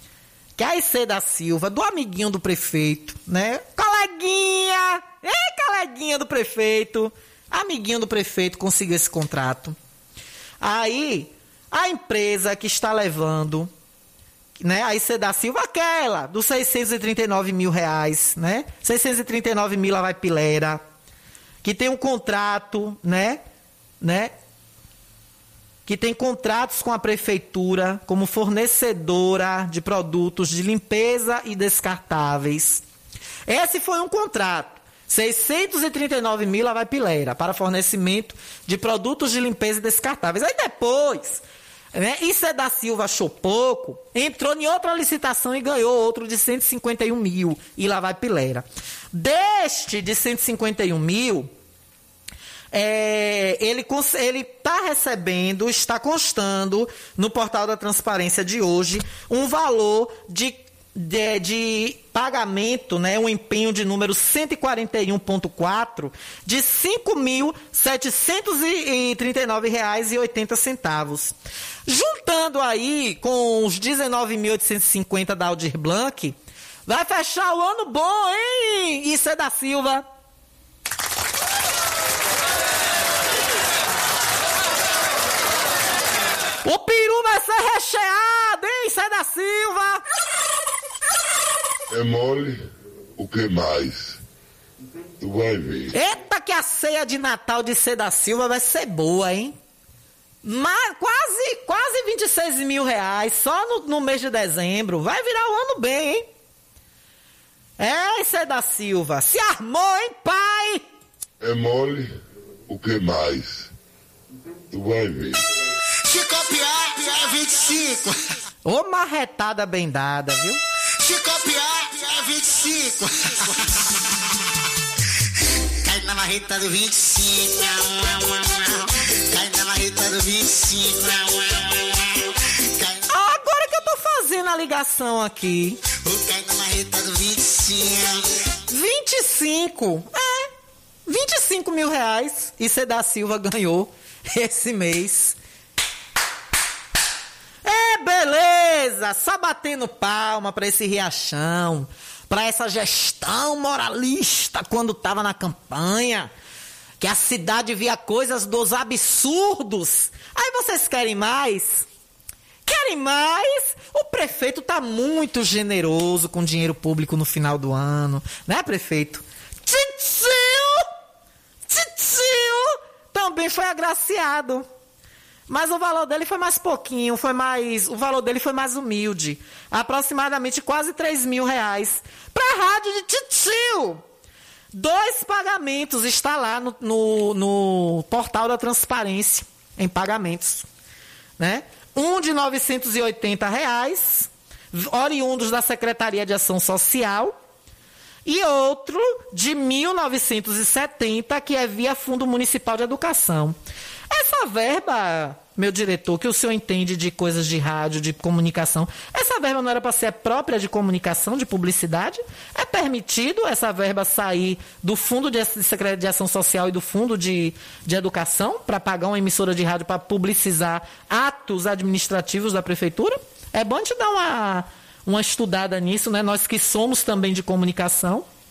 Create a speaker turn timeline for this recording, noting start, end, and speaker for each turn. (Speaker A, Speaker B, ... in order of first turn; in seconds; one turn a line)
Speaker A: 0.6-9.8
Speaker A: 10.6-13.7
Speaker A: 14.6-20.8
Speaker A: 21.6-23.4
Speaker A: 24.0-24.3
Speaker A: 25.9-32.8
Speaker A: 33.5-41.4
Speaker A: 41.9-51.5
Speaker A: 52.7-71.3
Speaker A: 71.9-76.4
Speaker A: 76.9-80.0
Speaker A: 86.7-90.0
Speaker B: 91.9-92.7
Speaker B: 93.2-94.2
Speaker B: 95.2-96.0
Speaker A: 95.9-99.5
Speaker A: 100.4-106.3
Speaker A: 107.8-110.8
Speaker B: 111.4-113.7
Speaker B: 114.7-115.4
Speaker C: 116.1-118.2
Speaker A: 118.7-120.6
Speaker C: 121.0-124.0
Speaker C: 125.8-133.0
Speaker A: 133.1-135.8
Speaker C: 136.0-138.4
Speaker A: 138.7-140.5
Speaker A: 141.1-145.4
Speaker A: 147.7-156.3
Speaker A: 157.0-161.9
Speaker A: 162.7-170.9
Speaker A: 171.7-174.7
Speaker A: 175.5-184.0
Speaker A: 184.7-190.7
Speaker A: 191.4-197.3
Speaker A: 198.2-203.6
Speaker A: 204.1-228.2